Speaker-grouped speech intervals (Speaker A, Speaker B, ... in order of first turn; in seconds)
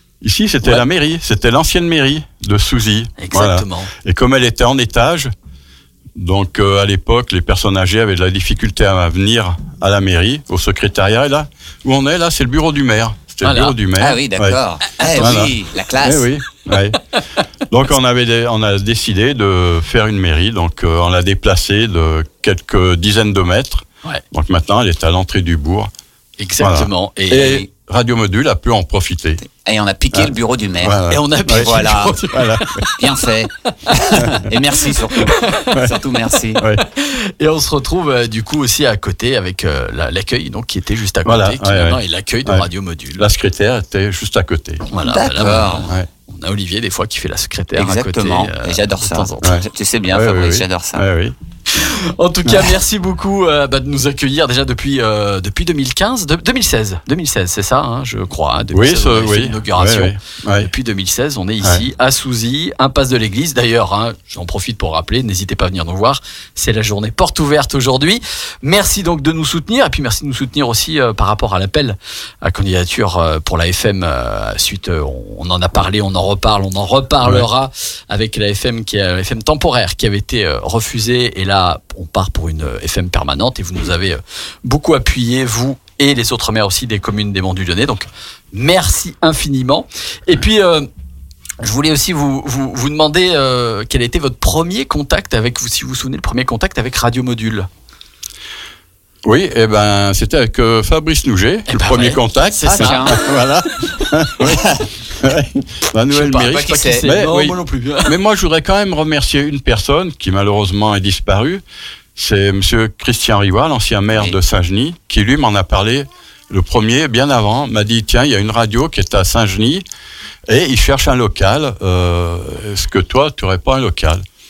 Speaker A: 0.2-5.3, 6.2-14.6, 15.1-17.0, 17.7-25.9, 26.6-29.4, 30.1-32.9, 35.7-36.0, 36.6-36.8, 41.2-44.8, 49.4-51.3, 58.7-60.7, 99.2-111.6, 112.2-119.8, 120.5-124.2
Speaker B: 3.2-3.9, 13.4-13.8, 26.4-27.6, 31.1-33.0, 33.8-34.3, 34.9-35.8, 36.9-43.2, 44.9-49.6, 51.7-90.9, 91.6-97.7, 101.7-103.2, 106.1-108.1
Speaker C: 14.0-16.3, 29.5-32.2, 33.0-36.6, 45.0-45.9, 47.8-51.0, 102.7-103.4, 104.4-104.8, 106.4-107.0